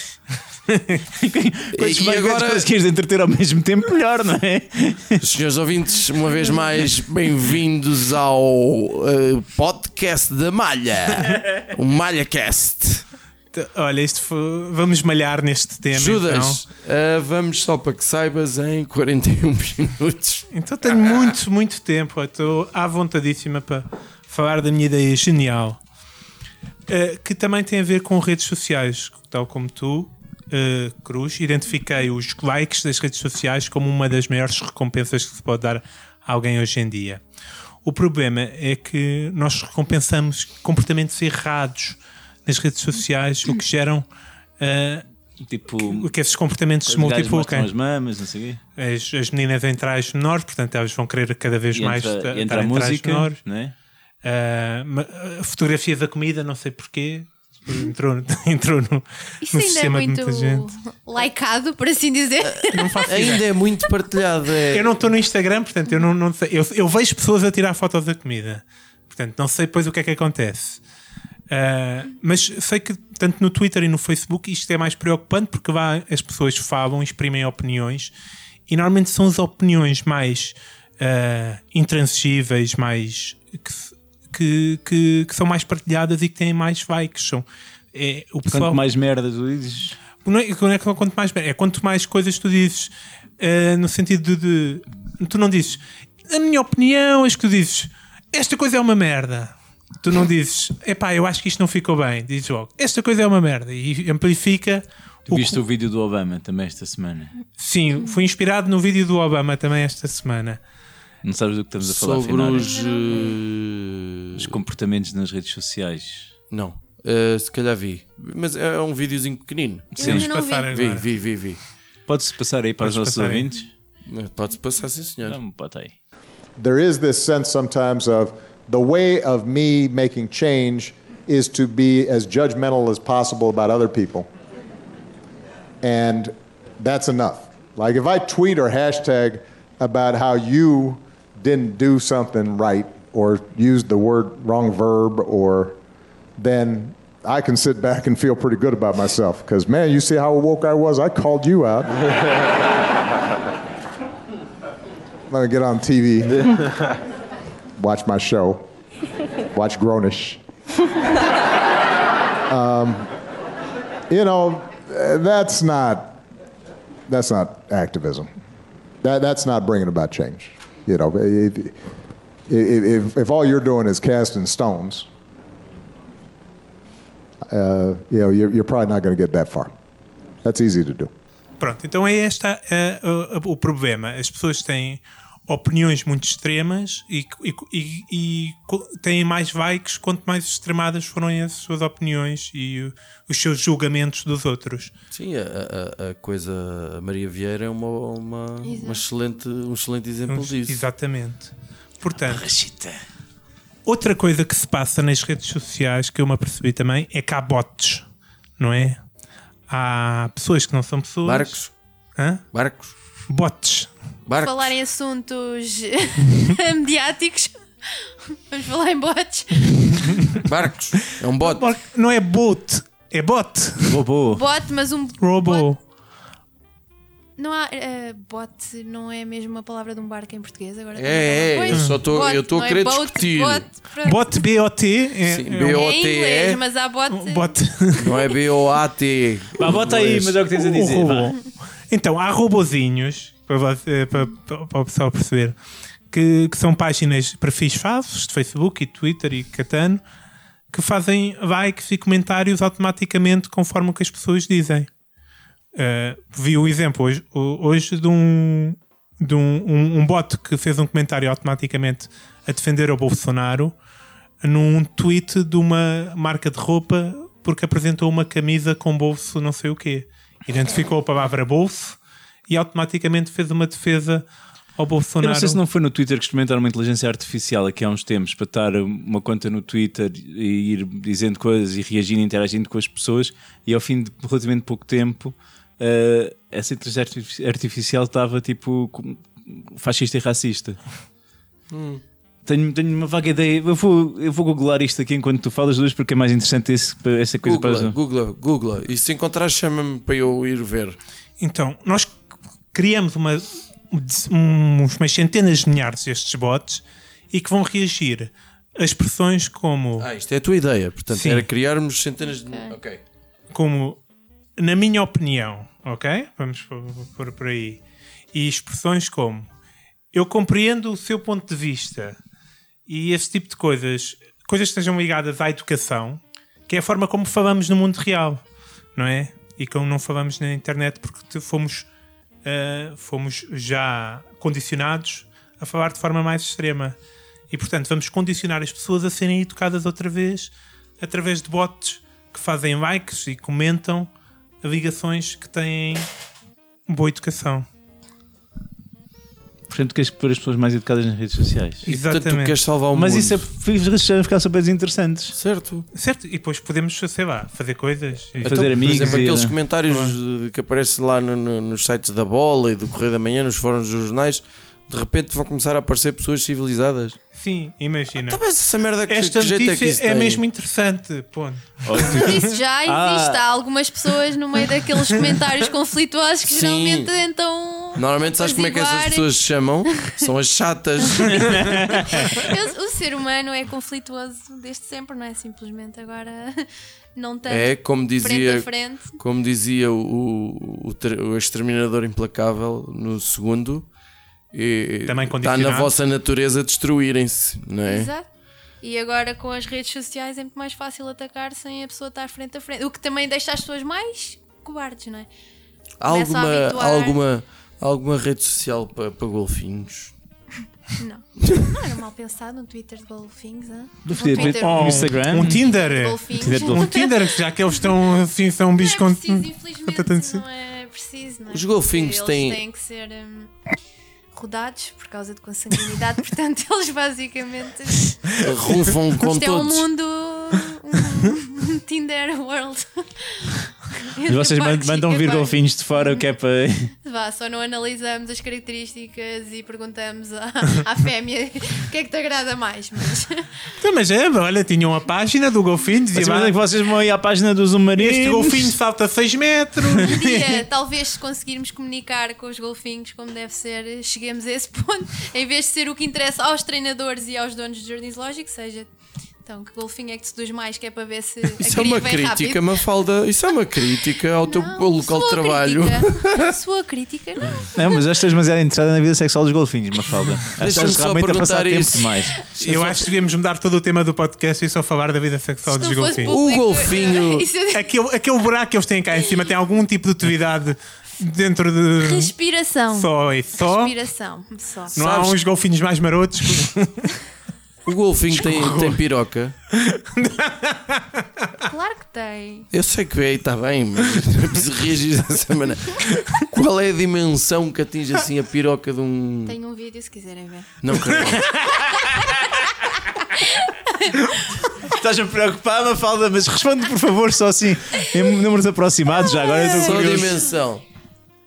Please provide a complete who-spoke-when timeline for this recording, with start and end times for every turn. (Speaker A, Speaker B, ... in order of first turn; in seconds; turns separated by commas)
Speaker A: 0.7-1.0, Speaker B: 1.1-5.3, Speaker C: 1.7-2.6, Speaker C: 5.2-13.0, Speaker A: 13.5-16.6, Speaker C: 15.9-20.5, Speaker A: 20.5-25.8, Speaker A: 26.9-37.2, Speaker A: 37.8-44.0, Speaker A: 44.6-45.0, Speaker B: 45.4-46.1, Speaker A: 45.7-47.7, Speaker B: 46.9-48.6, Speaker A: 48.8-53.4, Speaker B: 51.7-53.7, Speaker A: 54.2-60.7, Speaker D: 59.4-63.0, Speaker C: 62.4-64.9, Speaker A: 62.7-63.5, Speaker A: 64.7-70.8, Speaker A: 71.5-78.1, Speaker A: 78.7-88.8, Speaker B: 88.5-90.0, Speaker A: 90.2-105.6, Speaker B: 105.3-107.3, Speaker A: 107.6-110.6, Speaker B: 111.2-112.8, Speaker C: 111.8-114.5, Speaker D: 112.6-113.4, Speaker B: 114.3-116.3, Speaker C: 116.5-121.6, Speaker B: 120.0-120.2, Speaker D: 120.0-120.7, Speaker A: 120.0-121.1, Speaker B: 122.1-123.7, Speaker A: 122.8-123.5, Speaker C: 124.0-125.4, Speaker B: 125.2-125.9, Speaker E: 126.6-134.3, Speaker E: 135.8-145.8, Speaker E: 146.4-152.0, Speaker E: 155.3-156.6, Speaker E: 157.8-158.7, Speaker E: 159.5-160.4, Speaker E: 162.5-163.1, Speaker E: 164.1-166.2, Speaker E: 167.1-168.3, Speaker E: 169.0-171.7, Speaker E: 172.5-175.1, Speaker E: 177.5-179.7, Speaker E: 180.4-181.1, Speaker A: 181.6-194.9, Speaker C: 195.1-200.8, Speaker D: 198.6-199.0, Speaker A: 200.3-202.5, Speaker B: 202.2-203.0, Speaker A: 203.8-208.1, Speaker A: 208.6-209.0, Speaker A: 209.7-211.6, Speaker C: 211.2-211.7, Speaker A: 212.2-212.4, Speaker C: 212.5-212.9, Speaker A: 213.3-213.9, Speaker C: 214.3-214.7, Speaker D: 214.4-220.2, Speaker C: 220.4-221.6, Speaker A: 221.4-224.0, Speaker B: 223.9-224.4, Speaker D: 224.3-225.7, Speaker A: 225.2-225.8, Speaker D: 227.4-234.2, Speaker C: 230.9-233.7, Speaker A: 231.7-232.0, Speaker A: 234.0-235.8, Speaker C: 235.3-236.6, Speaker D: 235.7-237.5, Speaker A: 237.1-238.2, Speaker C: 238.0-240.3, Speaker B: 239.6-241.3, Speaker A: 240.4-245.6, Speaker A: 246.1-250.0, Speaker A: 250.7-254.9, Speaker A: 255.7-263.8, Speaker A: 264.4-275.6, Speaker B: 275.2-290.8, Speaker C: 291.7-292.0, Speaker B: 292.4-298.0, Speaker C: 297.4-301.0, Speaker A: 301.4-302.2, Speaker A: 302.7-310.1, Speaker C: 310.0-313.0, Speaker A: 311.1-311.5, Speaker D: 312.5-312.7, Speaker A: 313.5-314.0, Speaker A: 314.6-317.8, Speaker A: 318.3-319.5, Speaker A: 320.1-322.2, Speaker A: 322.9-328.4, Speaker A: 328.9-331.9, Speaker A: 332.4-336.9, Speaker A: 337.5-344.1, Speaker A: 344.6-346.1, Speaker A: 346.9-347.6, Speaker B: 349.7-351.9, Speaker C: 351.9-353.4, Speaker A: 351.9-352.6, Speaker B: 352.9-355.4, Speaker C: 355.3-355.9, Speaker A: 355.9-359.3, Speaker C: 358.4-367.2, Speaker B: 358.4-359.6, Speaker A: 359.9-360.1, Speaker A: 367.3-368.4, Speaker C: 368.3-370.4, Speaker A: 369.1-372.4, Speaker B: 371.8-373.4, Speaker D: 371.9-379.3, Speaker C: 376.4-377.1, Speaker C: 377.9-382.4, Speaker D: 379.8-380.3, Speaker D: 381.0-389.2, Speaker B: 381.6-382.2, Speaker C: 387.5-393.9, Speaker C: 394.5-398.1, Speaker A: 395.1-395.9, Speaker D: 397.9-398.2, Speaker D: 398.8-405.3, Speaker C: 406.0-410.1, Speaker D: 406.0-407.2, Speaker D: 411.0-417.2, Speaker B: 414.0-415.6, Speaker A: 414.4-420.4, Speaker B: 416.3-417.0, Speaker D: 418.8-423.5, Speaker C: 421.5-422.6, Speaker D: 424.3-428.4, Speaker C: 428.4-429.8, Speaker D: 429.2-436.2, Speaker B: 434.2-436.9, Speaker D: 437.0-443.4, Speaker A: 443.8-446.5, Speaker B: 446.1-448.7, Speaker A: 448.0-450.6, Speaker D: 450.0-458.9, Speaker D: 459.4-462.6, Speaker C: 461.6-466.6, Speaker D: 464.4-467.9, Speaker B: 467.7-472.4, Speaker C: 470.6-472.9, Speaker A: 472.6-476.4, Speaker D: 475.7-477.9, Speaker C: 476.3-477.5, Speaker A: 477.7-482.3, Speaker D: 482.0-485.0, Speaker A: 482.9-483.9, Speaker A: 484.9-487.1, Speaker C: 485.0-485.4, Speaker C: 487.8-489.5, Speaker A: 488.3-489.0, Speaker A: 489.7-491.4, Speaker D: 491.6-492.7, Speaker C: 492.7-499.6, Speaker D: 499.4-500.8, Speaker C: 500.8-501.6, Speaker D: 503.4-504.2, Speaker B: 504.8-510.4, Speaker D: 509.2-510.5, Speaker C: 509.7-510.8